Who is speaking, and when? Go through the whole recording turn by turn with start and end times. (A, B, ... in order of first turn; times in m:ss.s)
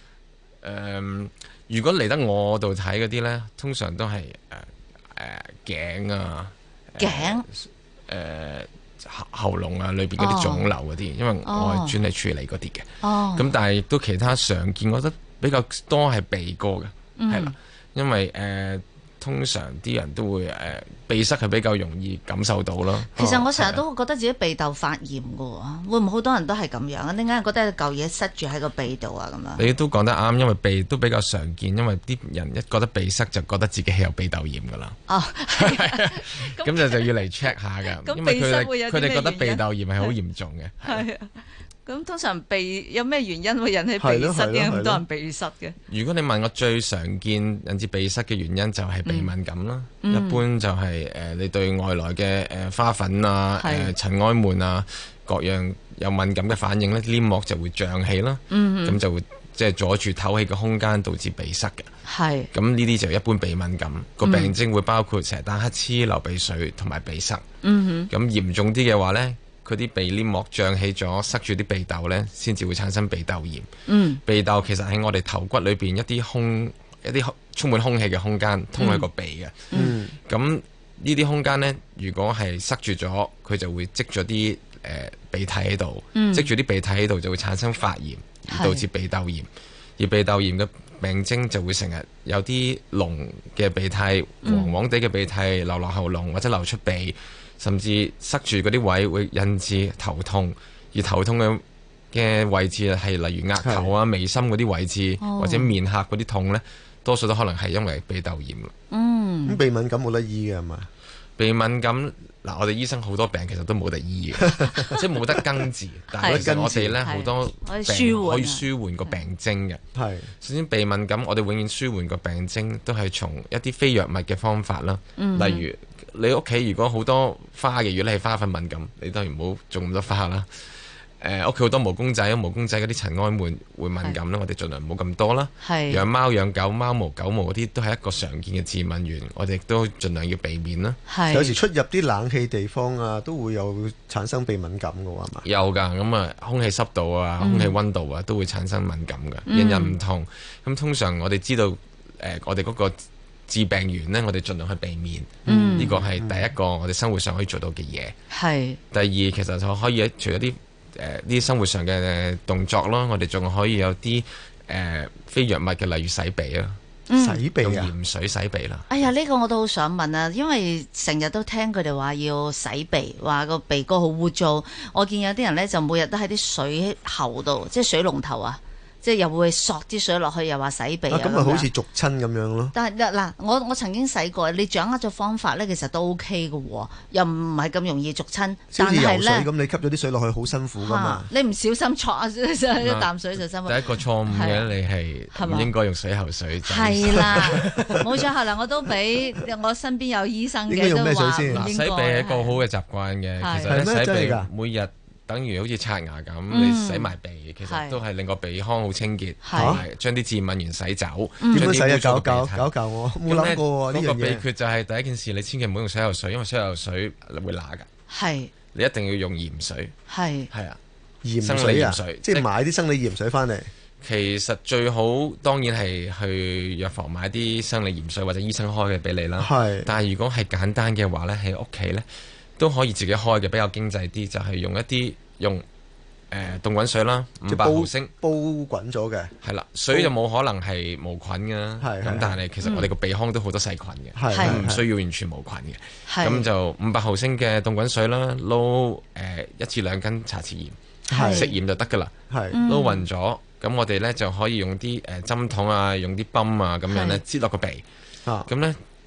0:00.6-0:23.8 A
0:07.0-0:07.5 B
0:10.2-0:10.7 B
0:11.4-0:12.0 B
0:13.0-0:13.5 B
0:17.2-0:17.5 B
0:23.2-0:29.6 B
0:29.6-0:35.0 A
0:35.1-0:37.1 B
0:35.6-0:41.0 A
0:37.9-0:40.1 B
0:40.8-0:45.8 B
0:44.0-0:45.0 C
0:45.9-1:01.9 A
0:49.1-0:49.3 B
0:50.0-0:50.4 B
0:53.6-0:53.9 B
0:58.5-0:59.0 B
1:02.1-1:02.5 B
1:02.5-1:07.4 A
1:04.2-1:04.5 B
1:07.6-1:08.1 B
1:08.1-1:13.7 A
1:13.9-1:14.2 B
1:14.2-1:48.7 A
1:18.8-1:19.1 B
1:19.7-1:20.0 B
1:19.7-1:20.2 C
1:26.1-1:26.5 B
1:28.5-1:28.9 B
1:34.4-1:34.7 B
1:43.6-1:43.9 C
1:45.2-1:45.7 B
1:48.9-1:49.6 B
1:49.5-1:50.9 C
1:51.4-1:59.8 A
1:54.7-1:55.0 B
1:56.1-1:58.7 B
1:56.2-1:57.0 C
2:00.0-2:00.3 C
2:00.4-2:10.5 A
2:05.2-2:05.7 B
2:11.2-2:21.0 A
2:15.6-2:16.0 B
2:21.1-2:21.6 B
2:21.3-2:25.4 C
2:25.4-2:38.1 A
2:27.4-2:27.8 B
2:29.5-2:30.0 B
2:35.5-2:36.4 C
2:35.5-2:36.0 B
2:38.3-2:38.8 B
2:38.9-2:46.8 A
2:47.1-2:47.4 B
2:47.2-2:47.9 C
2:47.6-2:49.1 A
2:48.9-3:01.7 B
3:01.1-3:02.8 C
3:02.7-3:09.5 B
3:08.7-3:11.3 C
3:10.8-3:14.7 B
3:12.8-3:13.1 A
3:13.6-3:18.0 A
3:15.3-3:15.7 B
3:16.6-3:22.6 B
3:17.3-3:18.0 C
3:20.7-3:21.7 C
3:21.5-3:32.7 A
3:23.4-3:23.8 B
3:23.7-3:24.5 C
3:26.5-3:28.0 B
3:29.4-3:29.8 B
3:29.6-3:29.8 C
3:31.4-3:31.7 B
3:31.5-3:34.4 C
3:33.2-3:37.9 A
3:38.1-3:38.5 B
3:38.7-3:40.0 A
3:40.1-3:40.5 B
3:40.5-3:40.8 A
3:41.2-3:43.7 C
3:41.4-3:42.5 A
3:44.0-3:52.1 A
3:49.4-3:49.9 C
3:52.6-3:55.6 A
3:56.3-3:58.1 A
3:57.5-3:59.3 C
3:59.4-4:12.1 A
4:01.8-4:02.4 C
4:02.6-4:02.9 B
4:04.2-4:04.8 C
4:04.3-4:04.6 B
4:06.1-4:06.5 B
4:11.1-4:11.5 B
4:11.1-4:11.5 C
4:12.3-4:12.6 C
4:12.5-4:13.1 B
4:12.6-4:17.8 A
4:16.9-4:17.2 B
4:18.2-4:18.5 C
4:18.5-4:18.8 A